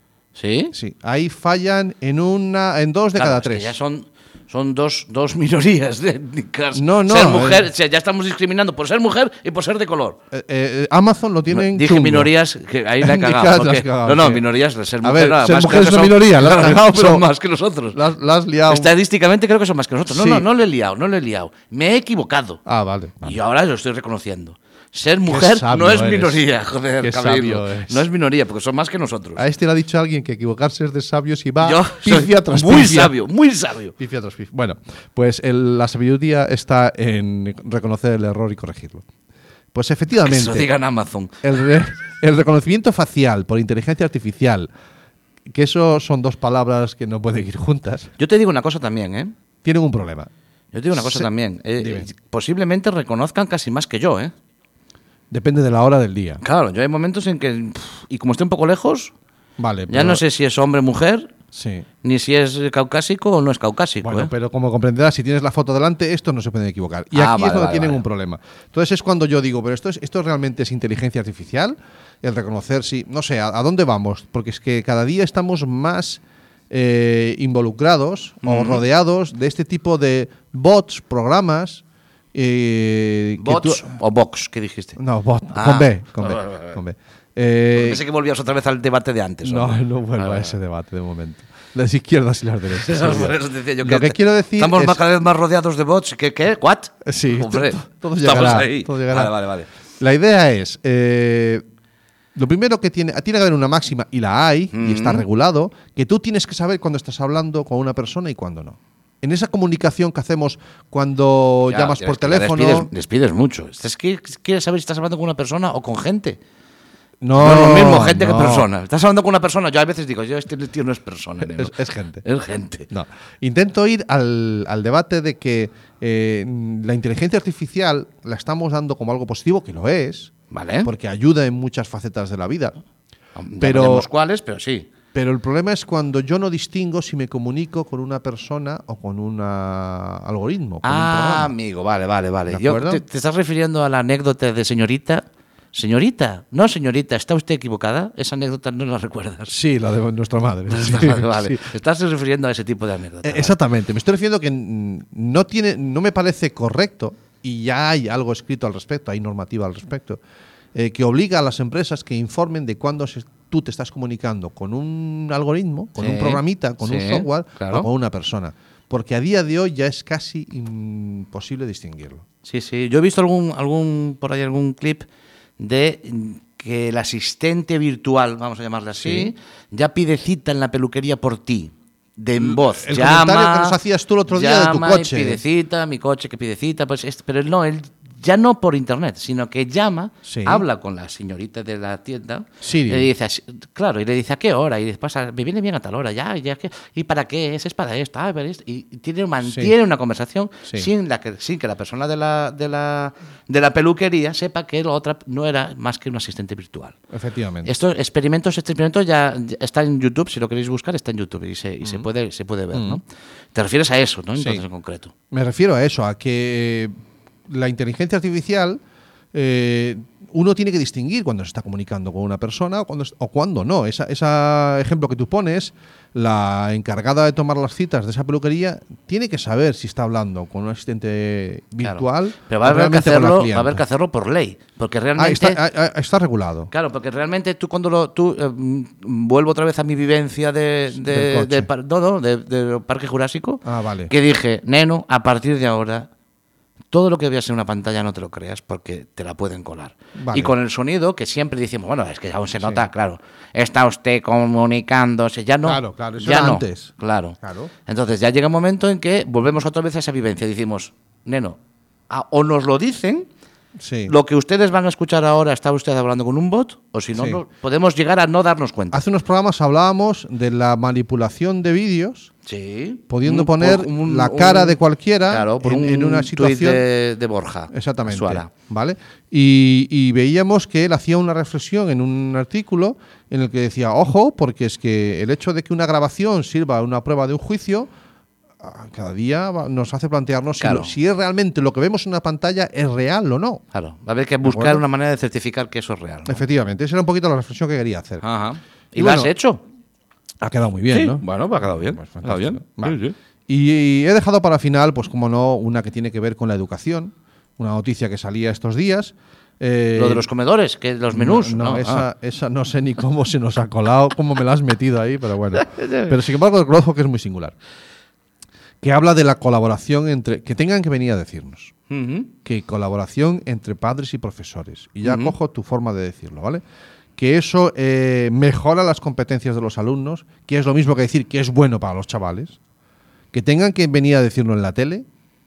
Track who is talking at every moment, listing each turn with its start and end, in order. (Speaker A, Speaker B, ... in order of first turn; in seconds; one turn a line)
Speaker A: 0.3-0.7
Speaker B: 0.7-3.7
Speaker A: 3.1-10.2
Speaker B: 6.7-7.7
Speaker B: 10.3-12.3
Speaker A: 11.5-18.0
Speaker B: 13.0-14.4
Speaker B: 15.0-17.3
Speaker B: 17.9-18.9
Speaker A: 18.7-22.6
Speaker B: 20.1-20.4
Speaker B: 22.6-23.4
Speaker A: 23.2-29.4
Speaker B: 25.2-26.4
Speaker B: 27.0-28.0
Speaker B: 29.4-33.1
Speaker A: 31.6-33.9
Speaker B: 34.0-39.0
Speaker B: 39.7-40.7
Speaker A: 40.2-41.4
Speaker B: 41.4-44.7
Speaker B: 45.5-48.1
Speaker A: 48.2-49.3
Speaker B: 49.6-50.3
Speaker A: 50.7-54.3
Speaker B: 50.9-52.1
Speaker B: 55.3-56.4
Speaker A: 56.4-59.1
Speaker B: 59.6-60.2
Speaker A: 59.9-61.3
Speaker B: 61.5-61.9
Speaker A: 62.0-64.3
Speaker B: 64.0-81.8
Speaker A: 67.1-68.0
Speaker A: 78.4-78.8
Speaker B: 82.3-84.0
Speaker A: 83.4-85.0
Speaker B: 85.0-88.0
Speaker A: 85.5-86.8
Speaker A: 87.7-90.5
Speaker B: 89.4-95.0
Speaker A: 92.8-99.7
Speaker B: 97.0-99.4
Speaker B: 100.0-101.6
Speaker B: 102.3-112.9
Speaker A: 104.7-105.2
Speaker A: 111.7-116.4
Speaker B: 117.2-118.7
Speaker A: 117.3-122.9
Speaker B: 121.4-122.2
Speaker B: 122.9-130.3
Speaker A: 130.5-130.9
Speaker B: 130.8-132.8
Speaker A: 133.3-134.9
Speaker B: 133.6-134.1
Speaker B: 135.1-141.5
Speaker A: 140.8-149.5
Speaker B: 142.5-143.0
Speaker B: 149.5-151.7
Speaker A: 150.7-153.5
Speaker B: 153.2-160.2
Speaker B: 160.7-172.2
Speaker A: 166.0-167.9
Speaker A: 172.4-175.0
Speaker A: 175.6-183.8
Speaker B: 178.9-179.3
Speaker B: 182.4-185.4
Speaker A: 184.3-206.9
Speaker B: 190.2-190.6
Speaker B: 192.6-193.1
Speaker B: 199.4-199.7
Speaker B: 207.1-207.7
Speaker A: 207.6-213.0
Speaker B: 212.7-213.0
Speaker A: 213.5-215.1
Speaker B: 214.4-214.6
Speaker B: 215.3-216.9
Speaker B: 217.5-218.8
Speaker B: 219.3-233.8
Speaker A: 231.8-235.6
Speaker B: 235.2-236.7
Speaker A: 236.7-246.1
Speaker B: 240.9-241.7
Speaker B: 243.6-244.1
Speaker A: 246.9-261.6
Speaker B: 250.2-250.5
Speaker B: 255.6-257.7
Speaker A: 262.1-263.3
Speaker B: 263.8-264.1
Speaker A: 264.1-269.0
Speaker B: 267.1-267.4
Speaker B: 268.9-272.3
Speaker A: 272.4-278.5
Speaker B: 273.1-276.8
Speaker B: 277.7-287.9
Speaker B: 288.6-293.6
Speaker A: 290.6-290.9
Speaker A: 293.7-296.4
Speaker B: 294.4-294.8
Speaker B: 296.2-298.2
Speaker A: 298.2-299.6
Speaker B: 298.9-299.3
Speaker B: 300.4-310.3
Speaker A: 300.9-303.1
Speaker A: 309.9-312.1
Speaker B: 311.1-317.5
Speaker A: 315.5-316.1
Speaker B: 318.8-321.7
Speaker A: 321.9-322.3
Speaker B: 322.4-326.6
Speaker A: 325.0-325.3
Speaker B: 327.2-332.6
Speaker B: 333.3-335.1